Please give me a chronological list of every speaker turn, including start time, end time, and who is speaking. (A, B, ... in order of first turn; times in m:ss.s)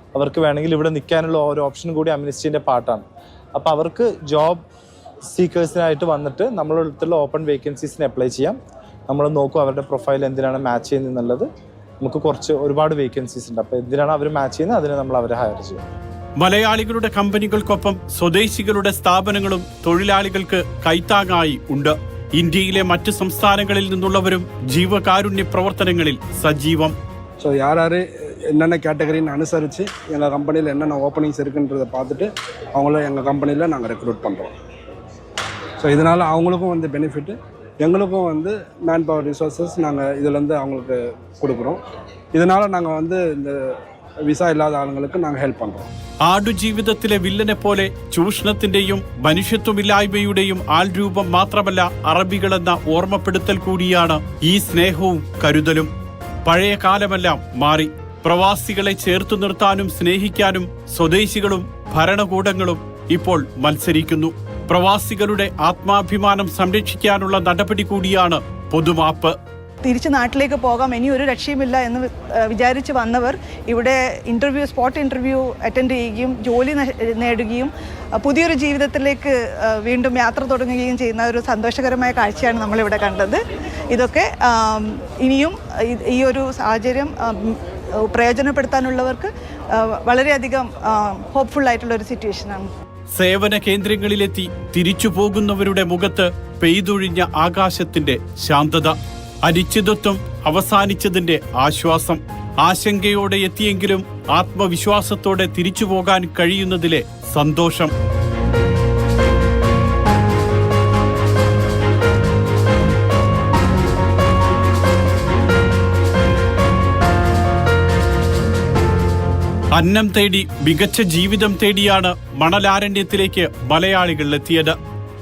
0:00.2-0:03.0 A
0:03.6-0:04.6 A
0:05.3-0:08.6 A
0:09.1-0:11.5 A
0:12.0-0:15.8 A
0:16.4-0:27.0 B
0:27.4-0:34.5 C
0:35.8-0:41.8 C
0:42.3-0:43.6 C
0:44.3-0:45.9 C
0:46.2-0:55.9 B
0:56.4-1:09.4 B
1:09.8-1:23.4 D
1:23.9-1:32.7 D
1:33.2-1:47.9 B
1:59.7-2:04.8 B